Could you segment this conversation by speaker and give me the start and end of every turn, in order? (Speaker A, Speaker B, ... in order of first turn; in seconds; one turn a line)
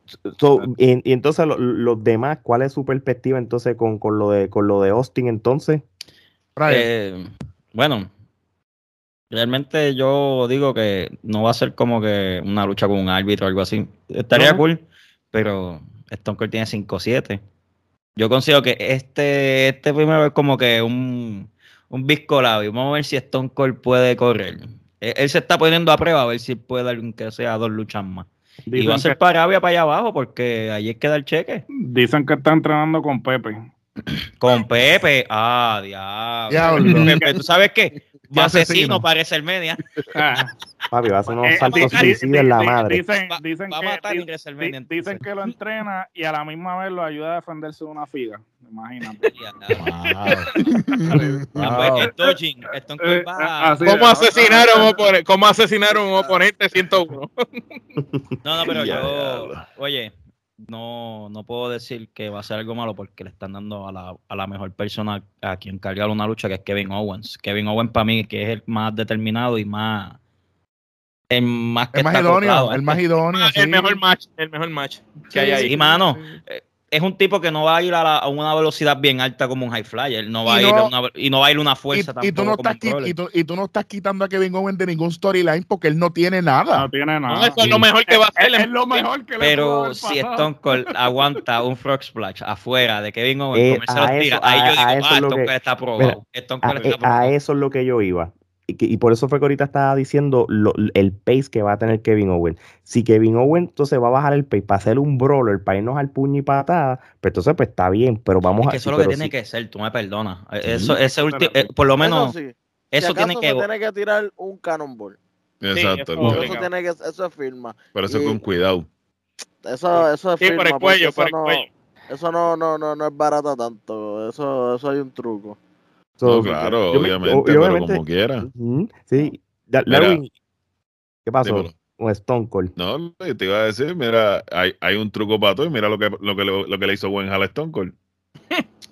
Speaker A: 0.2-5.8
Speaker B: 6.6-6.9
Speaker C: 6.7-8.1
Speaker C: 9.3-17.4
Speaker B: 14.3-14.6
Speaker C: 18.2-31.6
Speaker D: 28.7-29.2
Speaker D: 31.8-33.7
Speaker C: 34.4-39.8
Speaker B: 36.5-37.1
Speaker B: 38.3-39.0
Speaker D: 40.1-40.5
Speaker A: 40.9-43.0
Speaker C: 41.3-42.3
Speaker D: 41.4-49.3
Speaker C: 43.3-45.2
Speaker C: 49.3-49.9
Speaker B: 49.7-50.5
Speaker E: 50.6-51.6
Speaker C: 51.6-54.0
Speaker B: 51.6-52.1
Speaker D: 53.0-55.1
Speaker F: 53.8-57.8
Speaker C: 58.4-60.1
Speaker E: 58.7-59.6
Speaker C: 60.6-70.2
Speaker C: 71.3-73.0
Speaker B: 71.9-74.0
Speaker F: 73.3-75.7
Speaker B: 75.3-76.4
Speaker C: 75.7-83.2
Speaker B: 80.5-80.9
Speaker B: 81.9-86.9
Speaker D: 86.7-90.5
Speaker F: 87.3-89.0
Speaker C: 89.4-97.3
Speaker A: 93.5-109.3
Speaker C: 108.6-112.3
Speaker G: 111.1-115.2
Speaker C: 112.9-113.7
Speaker E: 115.6-116.5
Speaker F: 115.7-116.7
Speaker G: 116.2-118.4
Speaker E: 117.9-118.9
Speaker G: 119.6-125.6
Speaker F: 119.9-121.7
Speaker A: 126.2-130.3
Speaker E: 126.2-128.5
Speaker E: 129.9-130.2
Speaker A: 131.3-132.7
Speaker E: 131.4-131.8
Speaker E: 132.8-137.9